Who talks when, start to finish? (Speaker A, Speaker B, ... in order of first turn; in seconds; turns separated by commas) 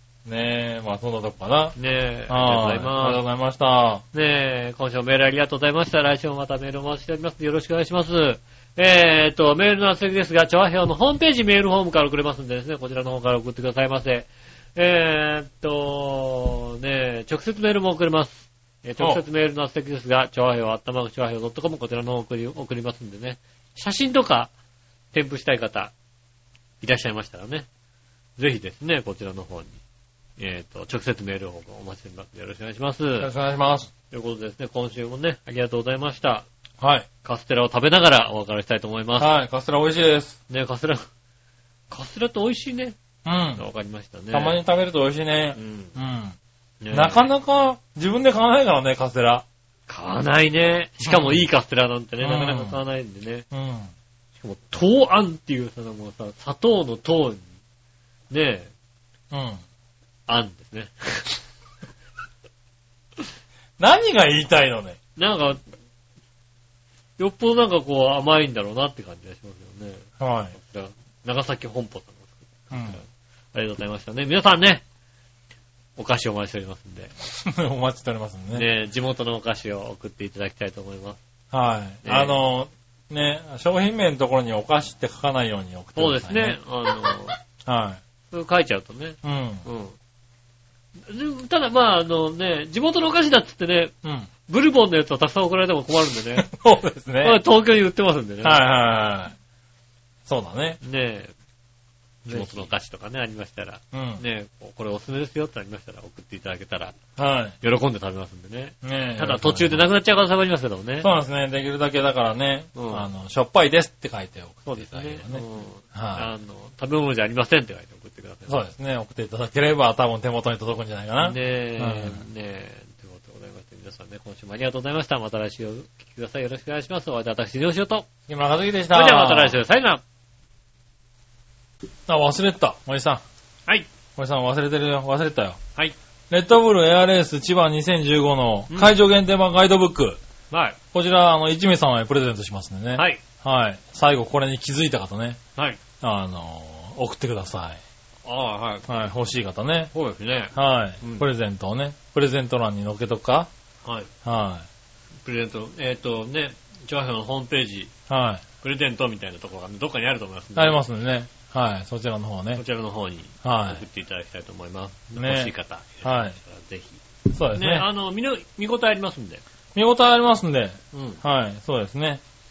Speaker A: 0.2-1.7, Speaker B: 1.8-3.2, Speaker A: 2.3-4.0, Speaker B: 4.1-24.5, Speaker B: 25.1-25.9, Speaker B: 26.8-27.6, Speaker B: 28.4-29.8, Speaker B: 30.4-33.3, Speaker A: 33.2-33.9, Speaker B: 34.1-36.5, Speaker A: 36.8-37.1, Speaker B: 37.2-39.3, Speaker A: 39.2-40.4, Speaker B: 40.5-41.0, Speaker B: 41.9-43.0, Speaker A: 43.2-43.6, Speaker B: 43.5-44.6, Speaker A: 44.3-46.4, Speaker B: 45.5-45.9, Speaker B: 46.8-47.3, Speaker A: 46.9-49.4, Speaker B: 49.9-53.5, Speaker A: 51.0-51.4, Speaker A: 52.2-52.8, Speaker A: 53.5-53.9, Speaker B: 54.4-57.5, Speaker B: 58.3-58.7, Speaker A: 59.3-59.6, Speaker B: 60.3-61.4, Speaker A: 63.8-65.0, Speaker B: 65.2-65.6, Speaker B: 67.2-74.8, Speaker A: 70.2-70.5, Speaker A: 72.7-73.0, Speaker B: 76.0-77.1, Speaker A: 77.3-78.7, Speaker B: 78.5-81.2, Speaker A: 81.5-86.6, Speaker B: 82.0-82.3, Speaker B: 86.0-87.3, Speaker A: 87.7-88.0, Speaker B: 88.3-90.0, Speaker A: 89.2-89.6, Speaker B: 91.1-93.9, Speaker A: 94.0-94.3, Speaker B: 94.5-96.5, Speaker A: 96.4-97.4, Speaker B: 97.2-98.6, Speaker A: 98.4-99.3, Speaker A: 100.2-100.8, Speaker B: 100.8-101.3, Speaker B: 102.2-107.0, Speaker A: 102.3-102.7, Speaker A: 103.9-104.2, Speaker A: 107.2-107.5, Speaker B: 107.6-111.1, Speaker A: 108.8-109.8, Speaker A: 111.0-116.3, Speaker B: 112.7-113.1, Speaker B: 114.7-118.5, Speaker A: 118.5-122.2, Speaker B: 121.2-128.1, Speaker A: 128.3-129.6, Speaker B: 128.9-130.0, Speaker A: 132.1-133.2, Speaker A: 134.2-135.6, Speaker A: 136.3-140.2, Speaker B: 140.5-140.8, Speaker A: 140.9-145.4, Speaker B: 142.9-143.2, Speaker A: 146.0-147.8, Speaker B: 148.2-148.9, Speaker A: 148.9-149.9, Speaker B: 149.9-151.3, Speaker A: 150.5-153.5, Speaker B: 153.8-154.1, Speaker A: 154.2-154.7, Speaker B: 155.2-157.9, Speaker A: 158.1-158.4, Speaker B: 158.6-160.8, Speaker A: 160.6-162.6, Speaker B: 162.5-167.0, Speaker A: 163.4-163.8, Speaker A: 165.2-166.4, Speaker A: 167.3-167.9, Speaker B: 167.5-169.4, Speaker A: 169.7-172.2, Speaker B: 170.9-171.2